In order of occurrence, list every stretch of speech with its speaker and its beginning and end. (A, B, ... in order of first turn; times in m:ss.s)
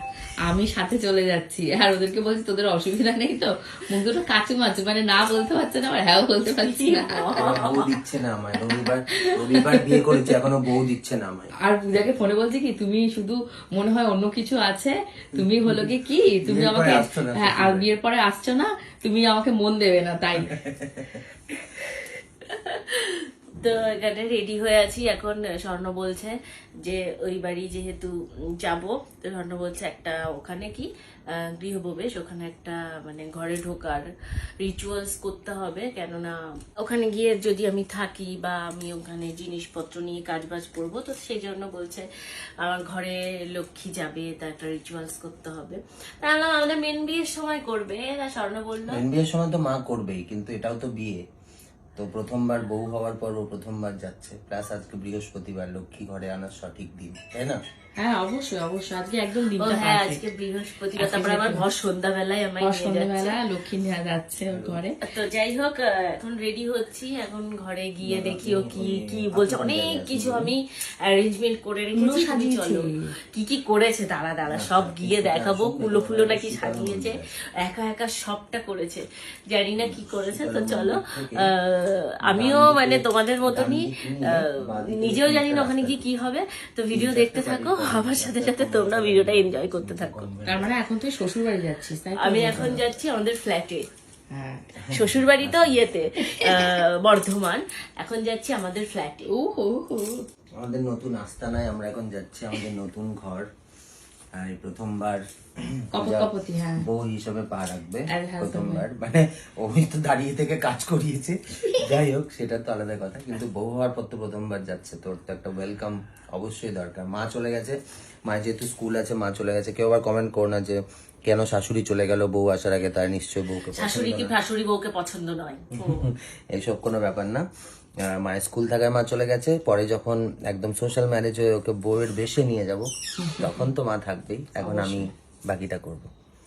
0:00.5-0:07.3 A
0:06.4-0:08.0 B
0:07.4-0:11.5 C
0:09.3-0:10.0 A
0:11.6-0:20.6 A
0:15.4-0:15.9 C
0:16.4-0:17.9 C
0:20.4-0:21.2 C
0:22.5-0:34.1 B
0:34.6-0:42.1 B
0:42.6-0:49.0 B
0:48.9-0:51.2 C
0:52.0-0:57.6 C
0:58.0-1:00.2 A
0:59.6-1:03.4 B
1:01.0-1:01.6 A
1:02.6-1:05.0 A
1:04.5-1:04.8 C
1:05.0-1:30.3 B
1:08.0-1:10.5 C
1:12.0-1:13.1 A
1:14.5-1:17.3 C
1:19.8-1:21.5 C
1:22.3-1:26.0 C
1:26.9-1:30.7 C
1:30.4-1:32.8 A
1:32.2-1:33.9 B
1:32.5-1:32.8 C
1:34.3-1:34.6 A
1:34.8-1:35.8 C
1:34.9-1:39.3 B
1:39.3-1:40.2 A
1:40.6-1:43.5 C
1:44.3-1:46.3 C
1:45.9-1:46.8 A
1:46.8-2:04.3 C
1:48.1-1:48.8 A
2:03.8-2:06.0 B
2:05.7-2:07.5 C
2:08.0-2:16.1 C
2:13.2-2:13.6 A
2:14.6-2:15.0 A